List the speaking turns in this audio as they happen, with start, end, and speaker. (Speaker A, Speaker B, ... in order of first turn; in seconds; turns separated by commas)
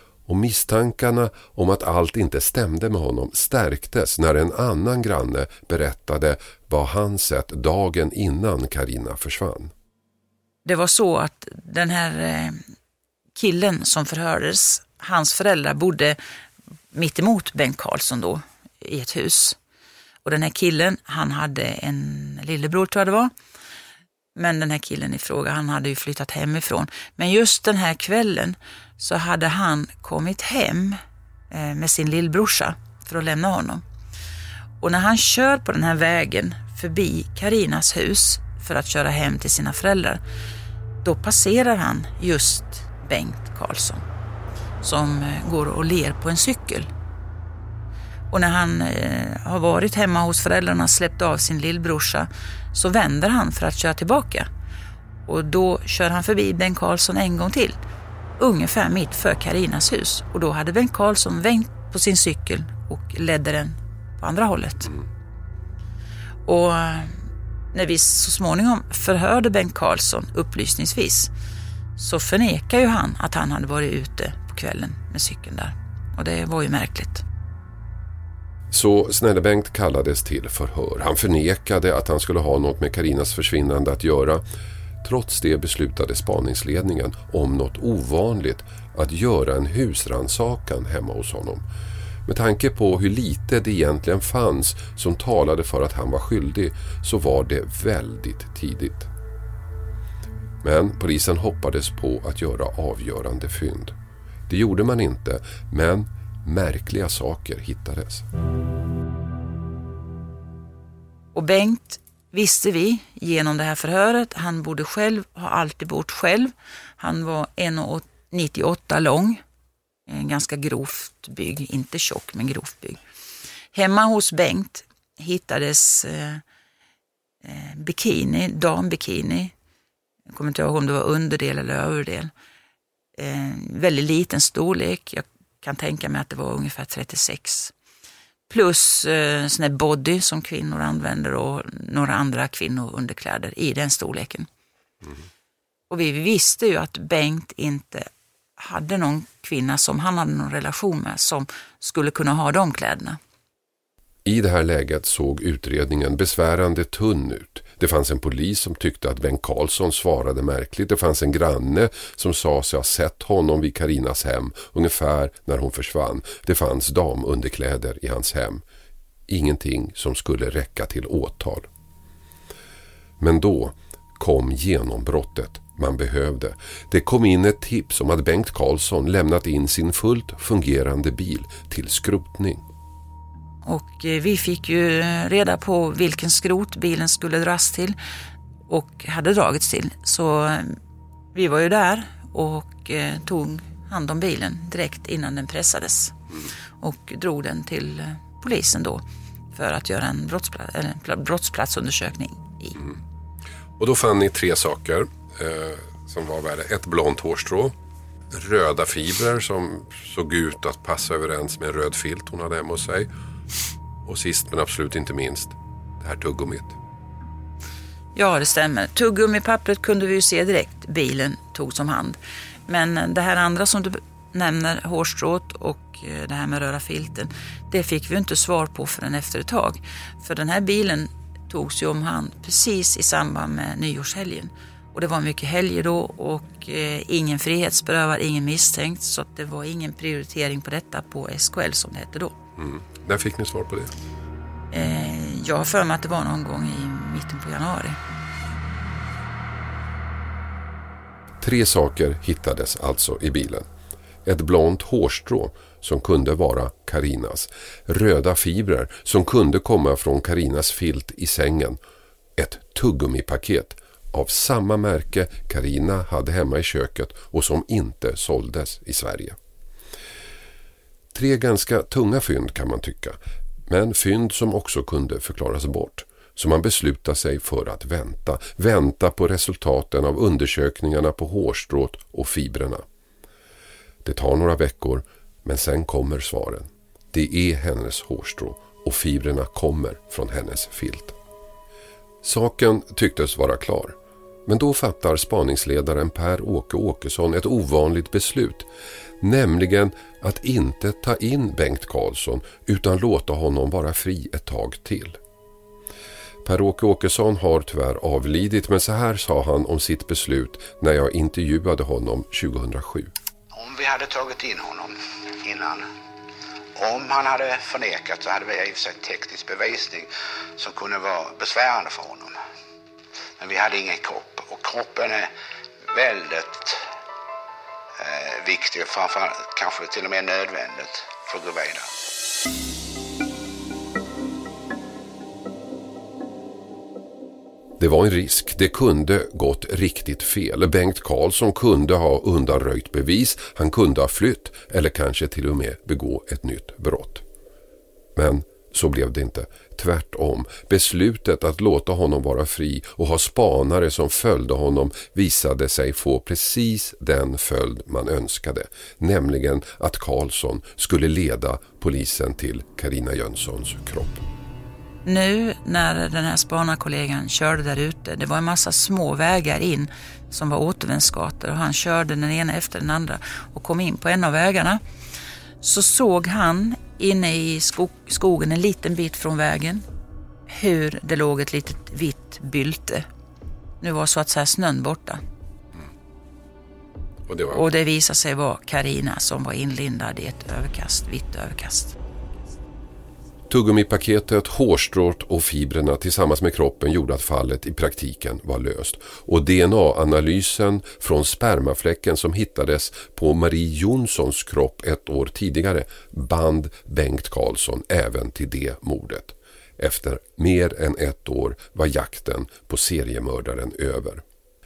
Speaker A: 0.2-9.7, Speaker B: 10.6-12.6, Speaker B: 13.3-16.2, Speaker B: 16.9-19.6, Speaker B: 20.2-23.3, Speaker B: 24.4-31.0, Speaker B: 31.5-33.8, Speaker B: 34.8-40.2, Speaker B: 41.0-44.0, Speaker B: 44.8-46.9, Speaker B: 48.3-54.5, Speaker B: 55.2-57.8, Speaker B: 58.4-64.9, Speaker B: 66.5-67.1, Speaker B: 67.7-71.3, Speaker B: 72.0-77.2, Speaker A: 78.7-84.4, Speaker A: 85.0-91.6, Speaker A: 92.2-99.1, Speaker A: 100.6-103.9, Speaker A: 104.5-108.3, Speaker B: 111.3-119.4, Speaker B: 120.1-123.0, Speaker B: 123.7-126.4, Speaker B: 127.4-129.5, Speaker B: 130.3-132.3, Speaker B: 133.2-137.7, Speaker B: 138.5-144.5, Speaker B: 145.9-153.2, Speaker A: 154.2-168.6, Speaker A: 169.3-171.7, Speaker A: 173.2-182.6, Speaker B: 183.6-188.0, Speaker B: 188.7-190.8, Speaker B: 191.3-196.2, Speaker B: 196.8-202.8, Speaker A: 203.8-207.7, Speaker A: 208.3-213.1, Speaker A: 214.1-216.8, Speaker B: 218.1-242.3, Speaker A: 242.6-243.9, Speaker B: 244.7-248.0, Speaker A: 251.4-253.7, Speaker A: 254.2-261.8, Speaker A: 262.4-269.4, Speaker A: 271.1-282.8, Speaker A: 284.0-291.2, Speaker A: 292.2-298.7, Speaker A: 299.2-305.2, Speaker A: 306.4-313.1, Speaker C: 313.5-315.9, Speaker C: 316.8-322.4, Speaker C: 323.4-325.3, Speaker C: 325.9-326.9, Speaker C: 328.0-331.9, Speaker A: 337.8-347.2, Speaker A: 348.2-364.2, Speaker B: 365.1-374.8, Speaker B: 375.6-379.8, Speaker B: 380.5-383.1, Speaker B: 383.8-385.2, Speaker A: 387.3-387.7, Speaker B: 387.5-392.0, Speaker A: 393.5-414.2